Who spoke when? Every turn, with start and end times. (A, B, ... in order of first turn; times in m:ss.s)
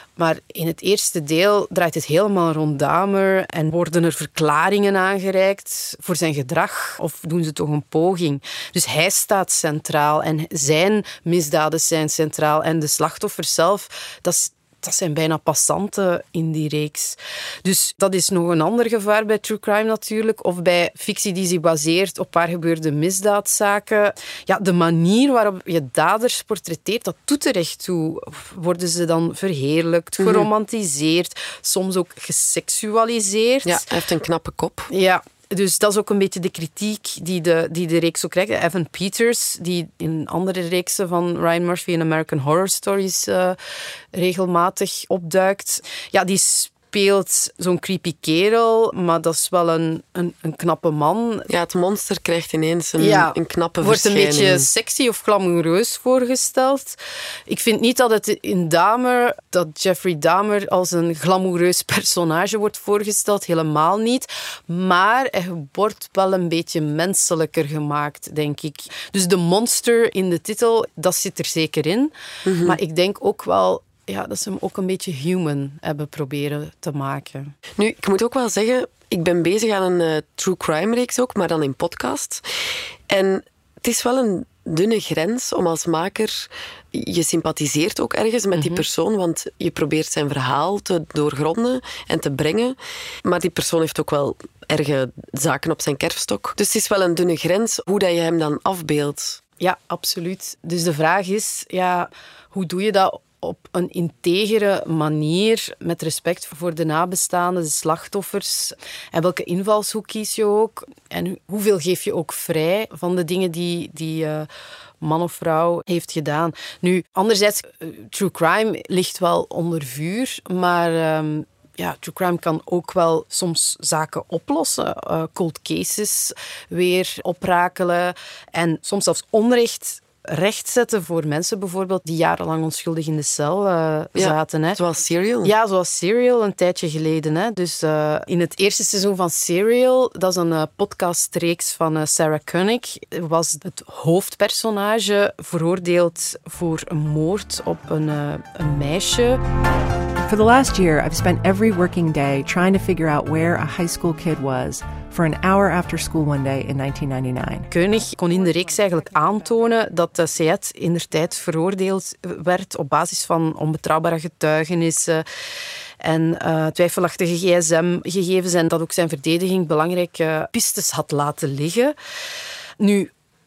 0:00.2-0:33.9 A
0:30.2-0:30.5 B
0:33.6-0:34.9 B
0:34.9-0:43.6 A
0:44.1-0:51.5 A
0:51.5-0:54.7 B
0:53.0-0:57.0 A
0:57.5-1:12.1 A
1:12.4-1:12.8 B
1:12.6-1:17.5 A
1:17.8-1:22.4 B
1:23.1-1:39.4 B
1:28.6-1:28.8 A
1:39.6-1:54.5 A
1:55.0-2:14.8 A
2:14.2-2:15.5 B
2:15.4-2:29.4 A
2:30.2-2:37.7 C
2:37.7-2:45.2 A
2:46.0-2:51.9 A
2:52.8-2:53.1 A